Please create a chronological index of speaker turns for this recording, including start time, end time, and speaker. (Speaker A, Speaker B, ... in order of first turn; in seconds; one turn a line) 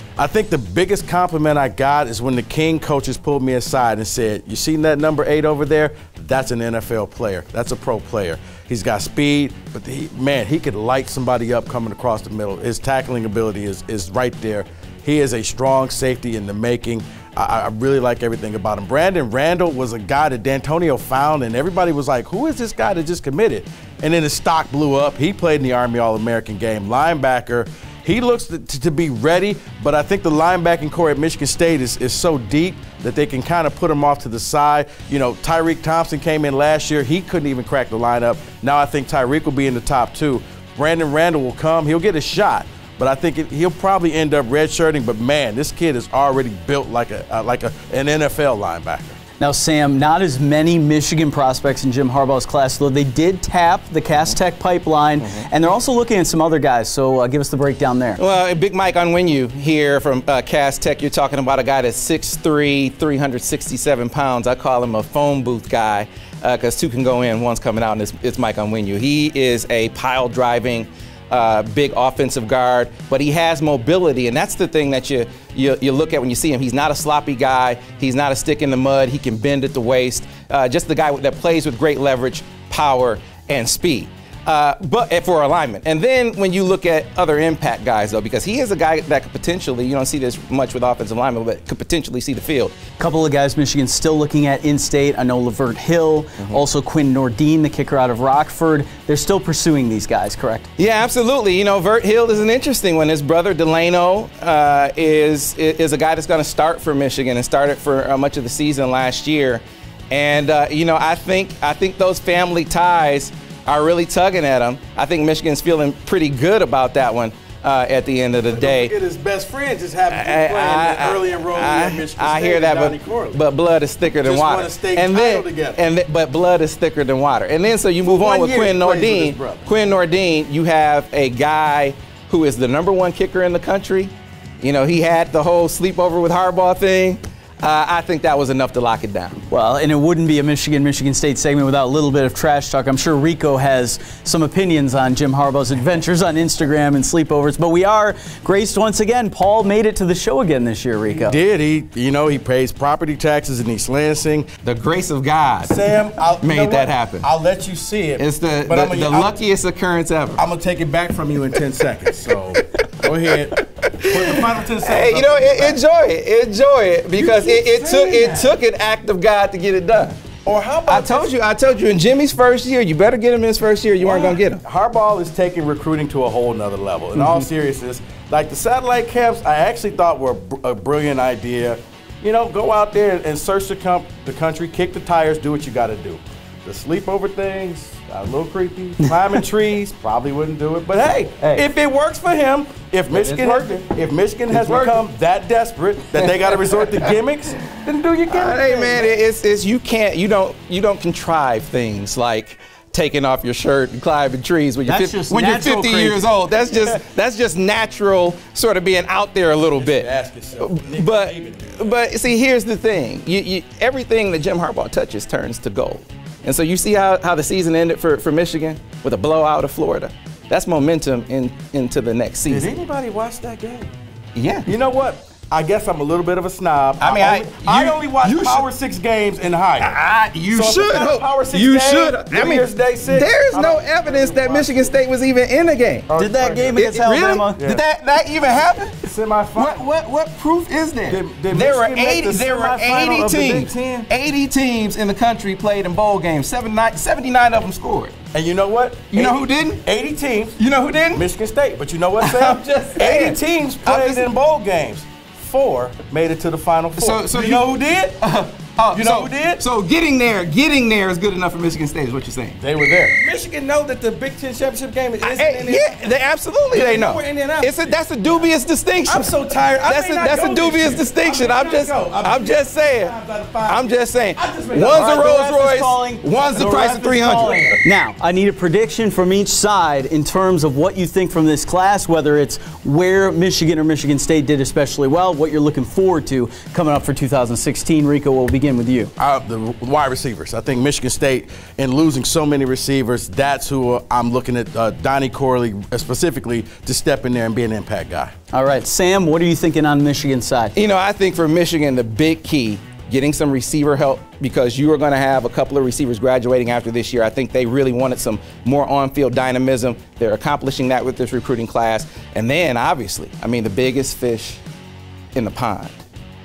Speaker A: 0.2-49.2
Speaker B: 49.4-58.2
Speaker C: 58.2-92.8
Speaker B: 93.0-100.7
Speaker C: 100.8-118.9
Speaker A: 118.5-123.4
Speaker C: 120.1-139.4
Speaker A: 124.2-125.8
Speaker A: 128.2-129.7
Speaker B: 139.5-151.4
Speaker A: 151.1-154.5
Speaker C: 154.6-157.3
Speaker A: 155.6-159.4
Speaker C: 158.2-160.4
Speaker A: 160.3-165.8
Speaker C: 162.6-170.2
Speaker A: 167.1-168.5
Speaker A: 170.4-171.3
Speaker C: 170.9-174.6
Speaker A: 174.0-199.2
Speaker C: 177.2-177.4
Speaker C: 193.1-193.7
Speaker C: 194.5-195.0
Speaker C: 196.2-197.2
Speaker C: 198.3-222.7
Speaker B: 204.8-206.3
Speaker A: 209.8-211.8
Speaker A: 222.5-223.9
Speaker C: 224.3-224.7
Speaker A: 224.7-229.9
Speaker C: 227.0-228.7
Speaker C: 229.8-236.1
Speaker A: 230.5-234.9
Speaker A: 236.1-236.8
Speaker B: 236.2-237.7
Speaker C: 236.7-248.1
Speaker A: 239.0-239.9
Speaker A: 241.1-244.1
Speaker A: 248.3-250.6
Speaker C: 249.1-249.8
Speaker C: 250.6-251.2
Speaker A: 251.1-258.2
Speaker C: 252.2-254.3
Speaker C: 257.0-257.7
Speaker C: 258.2-262.6
Speaker A: 258.9-259.6
Speaker A: 262.6-266.0
Speaker C: 265.2-273.1
Speaker A: 266.7-268.5
Speaker A: 269.1-275.2
Speaker C: 273.6-277.8
Speaker B: 274.9-289.1
Speaker A: 276.5-277.6
Speaker A: 289.2-298.3
Speaker B: 298.5-300.7
Speaker C: 300.7-314.6
Speaker C: 315.3-316.0